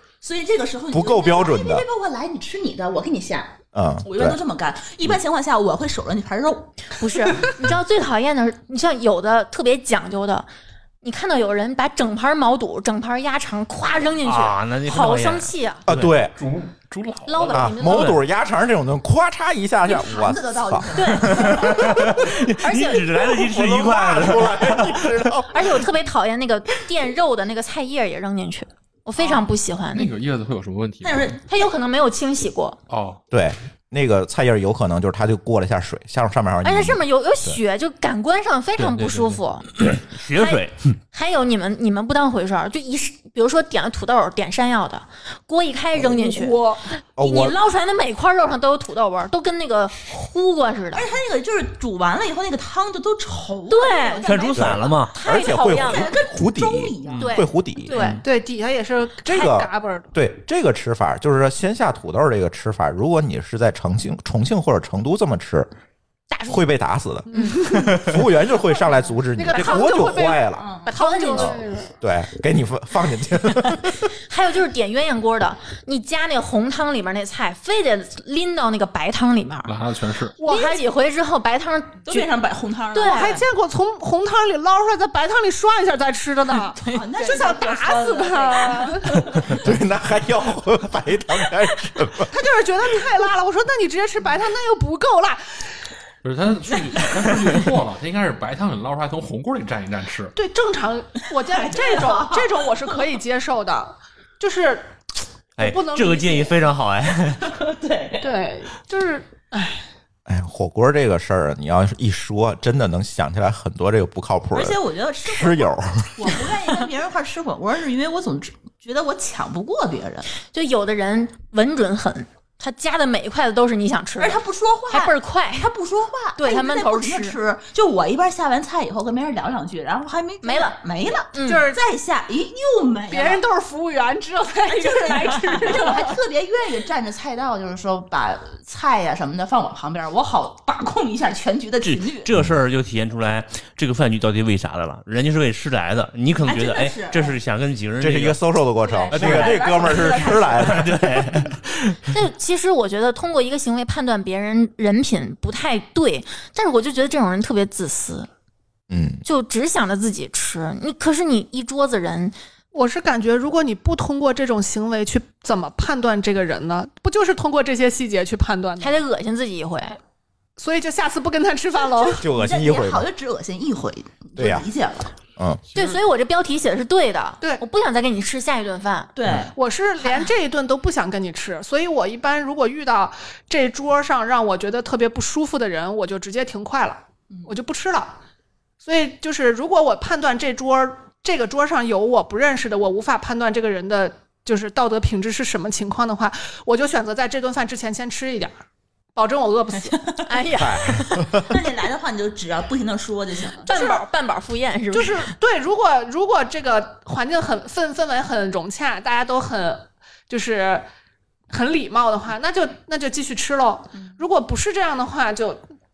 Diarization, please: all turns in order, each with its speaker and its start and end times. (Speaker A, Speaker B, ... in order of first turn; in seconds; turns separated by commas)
Speaker A: 0.2-7.5, Speaker B: 0.9-1.9, Speaker B: 3.7-4.4, Speaker C: 7.0-10.5, Speaker C: 11.0-15.8, Speaker D: 14.2-16.1, Speaker B: 15.9-16.3, Speaker E: 16.4-17.8, Speaker C: 17.3-18.2, Speaker B: 17.5-22.2, Speaker D: 17.8-18.2, Speaker A: 19.9-21.9, Speaker C: 20.9-23.3, Speaker D: 21.5-25.3, Speaker B: 23.3-25.8, Speaker C: 25.5-30.1, Speaker E: 29.9-31.4, Speaker A: 31.0-31.4, Speaker C: 31.4-32.8, Speaker E: 32.9-33.2, Speaker B: 33.3-37.6, Speaker C: 36.6-39.7, Speaker D: 38.8-41.0, Speaker C: 40.3-51.1, Speaker F: 46.0-46.8, Speaker B: 47.2-47.6, Speaker A: 50.9-57.4, Speaker C: 53.7-56.1, Speaker D: 54.2-55.1, Speaker B: 54.5-58.0, Speaker C: 57.2-58.2, Speaker F: 58.0-60.1, Speaker B: 59.2-65.7, Speaker C: 66.3-66.6, Speaker B: 66.5-70.7, Speaker F: 67.3-68.1, Speaker C: 67.3-68.0, Speaker F: 69.3-71.9, Speaker C: 69.5-69.9, Speaker A: 70.5-71.0, Speaker C: 70.9-71.6, Speaker B: 71.3-74.1, Speaker C: 74.3-79.8, Speaker E: 79.7-80.4, Speaker F: 80.4-80.8, Speaker C: 80.4-82.3, Speaker A: 82.0-83.4, Speaker C: 82.9-83.4, Speaker F: 83.0-89.5, Speaker A: 86.8-89.6, Speaker B: 89.5-92.3, Speaker F: 92.3-95.8, Speaker E: 96.2-100.3, Speaker F: 100.3-104.9, Speaker A: 101.5-102.9, Speaker D: 105.6-107.6, Speaker F: 105.6-106.6, Speaker A: 107.4-108.3, Speaker F: 108.2-109.8, Speaker B: 110.3-116.5, Speaker A: 114.5-120.3, Speaker C: 120.4-125.7, Speaker A: 124.2-133.4, Speaker C: 126.4-127.4, Speaker C: 130.4-130.8, Speaker C: 131.3-131.7, Speaker F: 131.4-131.8, Speaker F: 133.1-136.2, Speaker A: 134.7-142.3, Speaker D: 141.8-148.4, Speaker A: 146.4-147.4, Speaker B: 148.0-151.4, Speaker A: 148.8-150.9, Speaker D: 149.1-152.0, Speaker C: 152.1-158.3, Speaker B: 158.9-159.2, Speaker C: 159.2-162.3, Speaker F: 162.7-169.0, Speaker C: 168.8-170.0, Speaker F: 170.6-172.3, Speaker B: 172.2-173.1, Speaker A: 172.2-175.1, Speaker B: 174.4-174.7, Speaker E: 175.7-176.0, Speaker C: 175.7-179.1, Speaker A: 179.2-179.5, Speaker F: 179.6-188.2, Speaker F: 188.8-198.5, Speaker F: 199.2-200.0, Speaker A: 199.9-200.2, Speaker C: 200.2-201.3, Speaker B: 200.6-201.6, Speaker A: 201.4-203.7, Speaker C: 203.7-205.3, Speaker F: 203.7-204.0, Speaker F: 204.9-210.9, Speaker F: 211.5-215.6